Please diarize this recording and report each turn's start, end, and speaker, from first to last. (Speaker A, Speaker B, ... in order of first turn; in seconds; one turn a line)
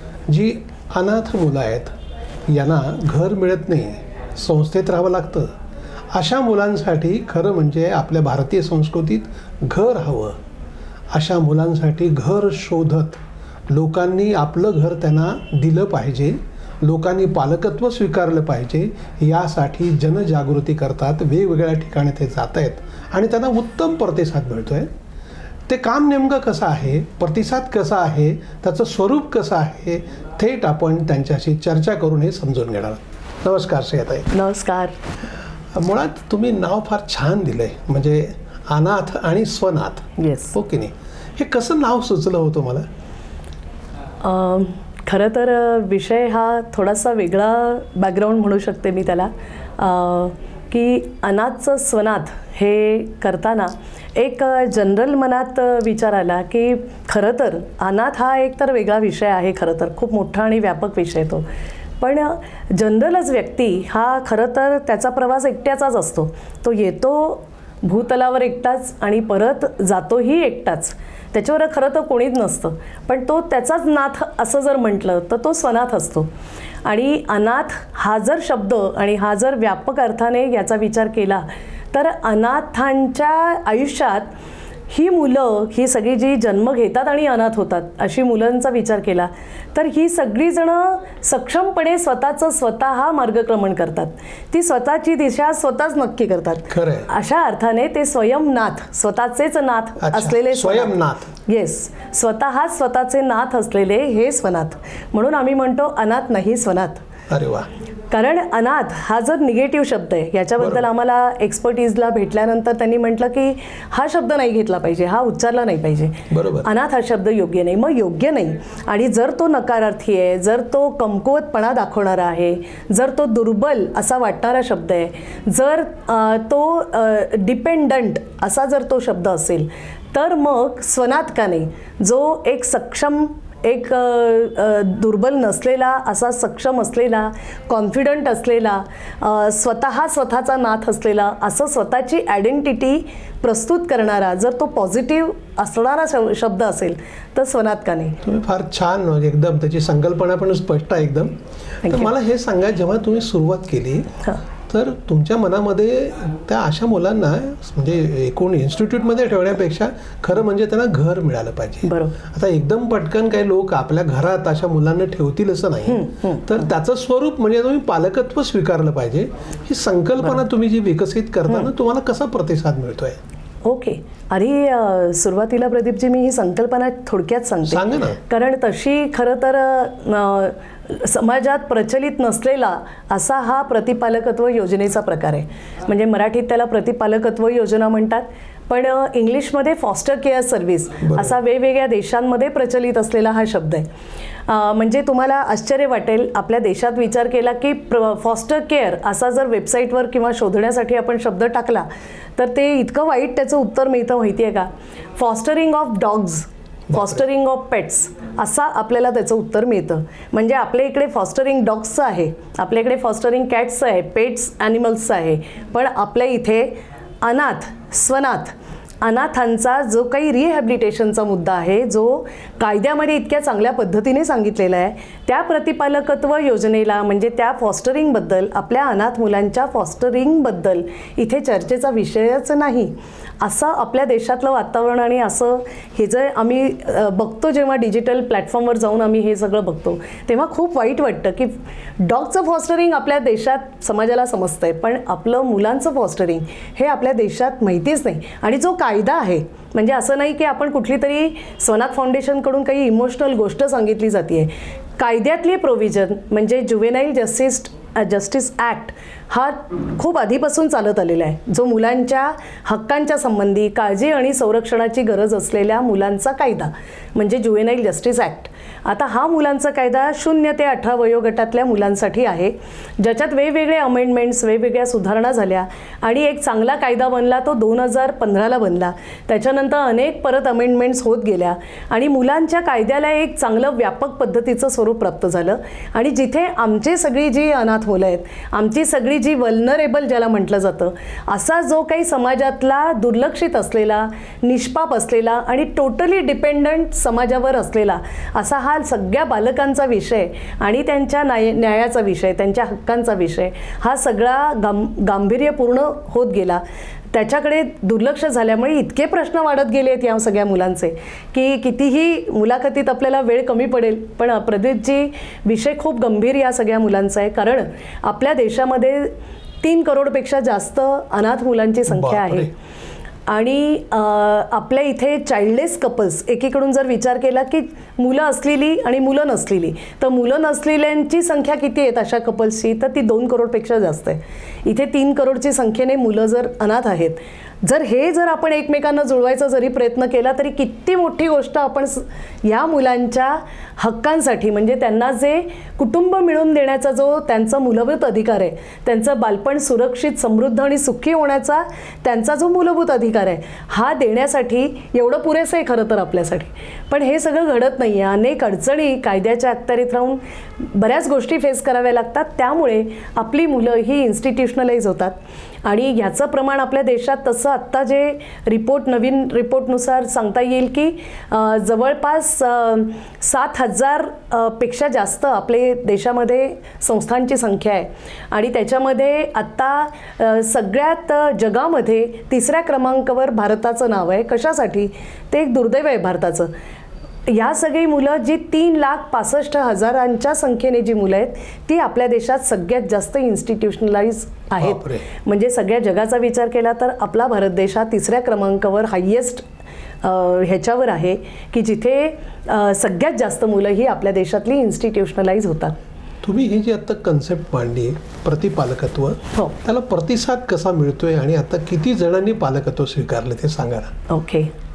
Speaker A: 0.3-1.9
Speaker A: 2.5-5.5
Speaker A: 6.1-10.4
Speaker A: 11.1-24.9
Speaker A: 25.7-34.3
Speaker B: 34.3-35.0
Speaker A: 35.7-42.9
Speaker B: 40.2-40.5
Speaker B: 44.2-61.5
Speaker B: 62.0-76.3
Speaker B: 76.8-84.3
Speaker B: 84.9-107.0
Speaker A: 96.7-97.1
Speaker A: 100.0-101.3
Speaker A: 107.3-107.7
Speaker B: 108.1-148.2
Speaker A: 110.6-110.8
Speaker A: 116.3-116.7
Speaker A: 148.2-151.3
Speaker B: 151.8-152.1
Speaker A: 151.8-154.1
Speaker A: 154.7-173.2
Speaker B: 161.8-162.2
Speaker B: 165.9-166.6
Speaker B: 173.7-193.9
Speaker A: 177.7-178.2
Speaker A: 191.0-191.4
Speaker B: 194.5-306.6
Speaker B: 307.1-322.5
Speaker A: 321.9-322.5
Speaker B: 323.3-386.5
Speaker B: 387.3-399.4
Speaker A: 394.6-395.1
Speaker B: 400.0-405.8
Speaker A: 406.2-413.9
Speaker B: 414.1-414.5